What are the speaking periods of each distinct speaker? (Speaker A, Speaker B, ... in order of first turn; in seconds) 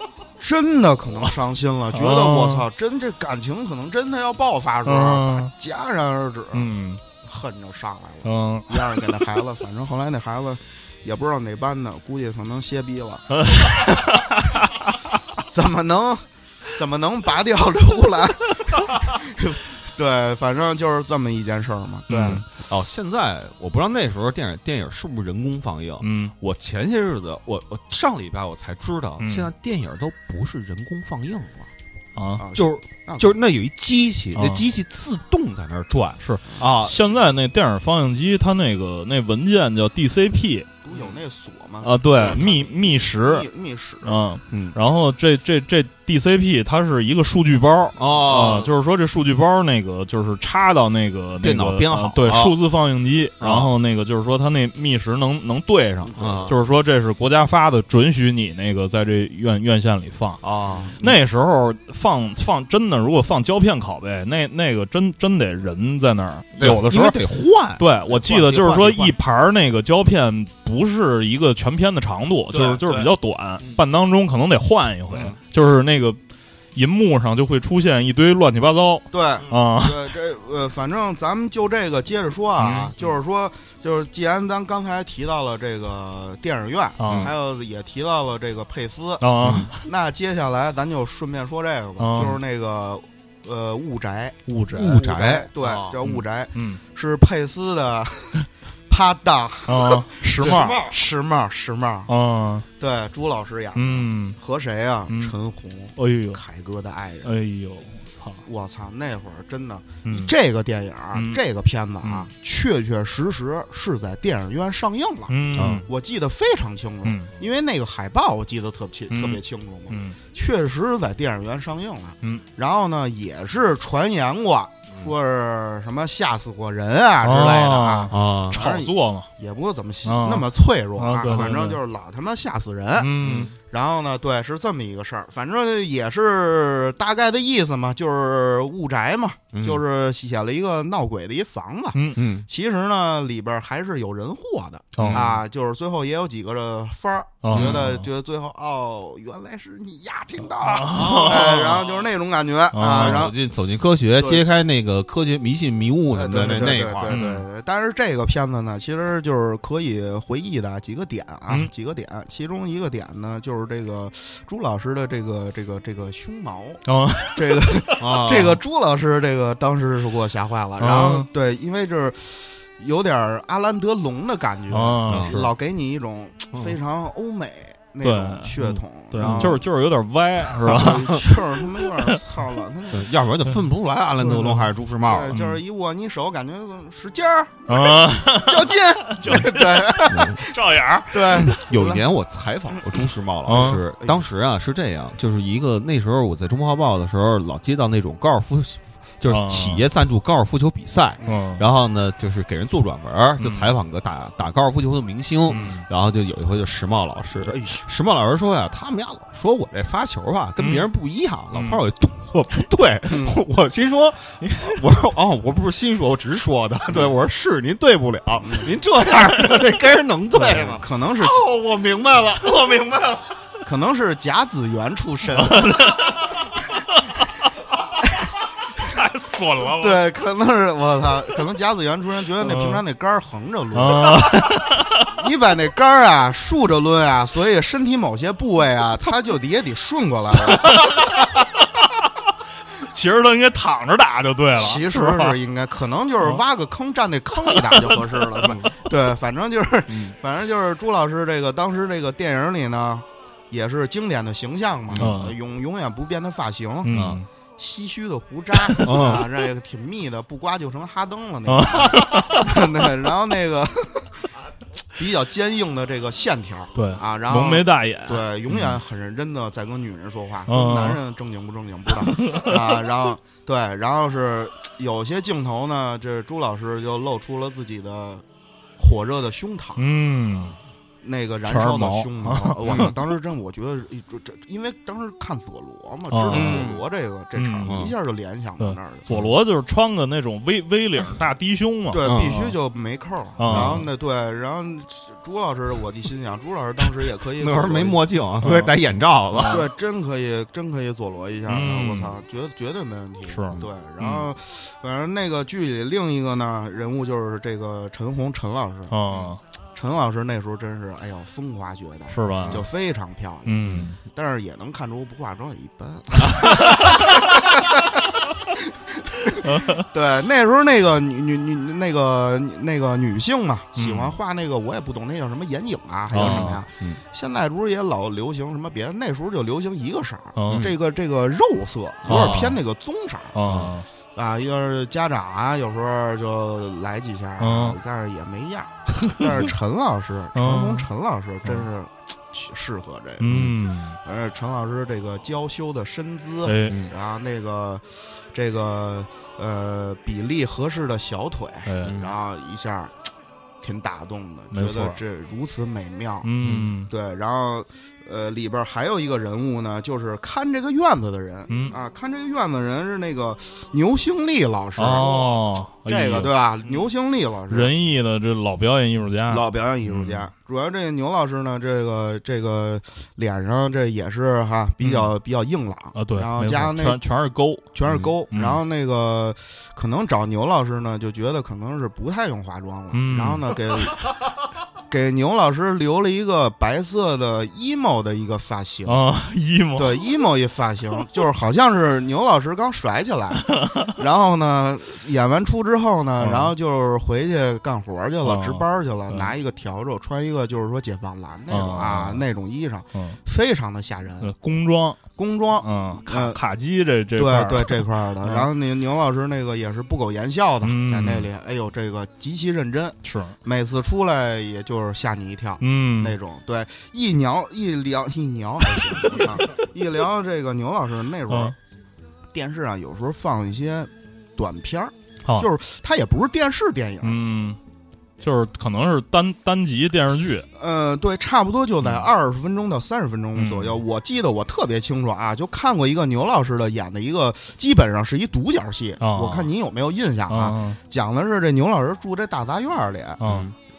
Speaker A: 0.4-6.7, 7.2-13.7, 15.5-22.4, 32.4-33.4, 40.8-44.2, 56.1-56.5, 79.1-102.1, 102.8-107.3, 108.5-133.1, 133.6-153.4, 156.1-166.8, 167.3-179.6, 180.6-183.1, 185.0-192.0, 193.6-194.2, 207.4-207.8, 213.1-213.4, 218.4-218.7, 220.3-221.5, 223.6-226.0, 229.8-234.6, 235.1-241.0, 244.6-256.9, 257.6-264.2, 264.9-278.2, 278.8-279.8, 281.0-289.1, 291.9-298.5, 299.4-309.0, 309.8-333.4, 334.1-343.5, 344.0-352.9, 353.6-356.3, 356.9-367.7, 369.3-377.0, 377.7-384.1, 384.9-389.0, 389.8-404.3, 405.2-406.4, 407.2-421.6, 422.3-427.2, 430.6-443.2
Speaker B: 1.9-2.7, 4.9-5.5, 6.5-7.0, 8.2-9.2, 13.3-14.7, 22.1-22.4, 26.0-26.3, 29.2-29.5, 32.2-32.4, 34.4-34.6, 36.2-40.7, 41.8-43.5, 44.0-60.4, 61.0-76.2, 76.8-80.1, 82.6-82.9, 87.0-87.3, 89.2-89.8, 92.0-92.4, 94.5-95.0, 96.0-96.8, 99.7-100.9, 102.1-102.7, 103.8-104.4, 105.1-105.3, 106.0-106.4, 107.2-108.4, 110.1-110.3, 111.1-111.4, 112.0-112.3, 115.3-115.9, 117.0-117.3, 119.1-120.2, 127.2-129.3, 130.1-131.8, 133.0-133.5, 141.9-142.2, 144.9-145.2, 147.4-147.9, 150.6-151.8, 152.7-153.3, 157.1-157.4, 166.9-167.7, 170.8-171.3, 174.7-175.5, 178.0-182.2, 184.3-184.7, 185.3-185.6, 187.7-191.6, 193.5-193.8, 199.3-199.8, 201.2-201.7, 203.4-203.7, 205.5-205.9, 210.6-210.9, 211.5-211.8, 214.4-214.8, 225.4-226.2, 228.9-229.9, 232.4-232.8, 233.7-235.1, 240.6-241.5, 242.8-245.4, 247.5-248.5, 255.0-255.3, 256.8-257.3, 261.5-262.6, 266.8-268.2, 270.5-271.0, 272.1-272.6, 279.8-280.6, 281.5-282.9, 286.1-286.6, 287.4-287.9, 288.6-292.5, 293.4-293.9, 298.4-298.7, 299.3-299.7, 301.5-302.2, 303.3-304.2, 308.9-309.4, 312.1-312.7, 313.5-314.0, 319.4-319.9, 323.8-324.2, 326.1-326.6, 330.4-330.7, 332.1-332.6, 333.4-333.9, 337.4-337.8, 340.4-340.9, 343.2-344.0, 346.4-346.8, 351.7-352.0, 354.5-355.0, 356.2-356.9, 361.5-361.7, 364.8-366.3, 367.5-370.2, 374.8-375.1, 375.9-377.7, 378.3-378.6, 382.9-383.5, 388.9-390.0, 393.5-393.9, 396.2-396.5, 398.2-399.3, 401.5-402.2, 402.9-403.2, 404.2-405.0, 405.6-408.5, 410.6-411.3, 413.0-413.3, 415.6-416.1, 427.0-427.6, 428.2-430.5, 433.4-433.8, 439.0-439.5, 440.3-440.8, 443.2-443.5
Speaker C: 22.2-31.7, 32.5-37.0, 44.5-44.8, 48.0-48.7, 51.4-52.6, 53.4-53.7, 56.2-56.6, 60.4-61.2, 66.6-69.2, 72.5-73.8, 75.1-75.4, 87.1-87.3, 89.4-89.7, 94.7-96.0, 100.4-101.0, 115.5-115.9, 128.1-128.6, 133.2-133.5, 139.5-139.8, 142.2-142.5, 145.0-145.4, 147.5-148.0, 150.9-152.0, 152.9-157.2, 168.0-168.6, 175.1-175.4, 178.6-179.6, 180.7-181.2, 182.9-185.4, 190.1-190.4, 191.5-223.2, 249.9-250.2, 254.9-255.2, 256.9-257.2, 258.8-259.3, 282.7-282.9, 286.3-286.8, 287.7-287.9, 292.1-292.4, 293.5-293.9, 297.4-299.6, 313.6-313.9, 326.1-327.0, 330.5-330.7, 332.0-332.6, 333.4-333.7, 343.2-343.6, 351.8-352.1, 356.4-356.7, 443.2-443.5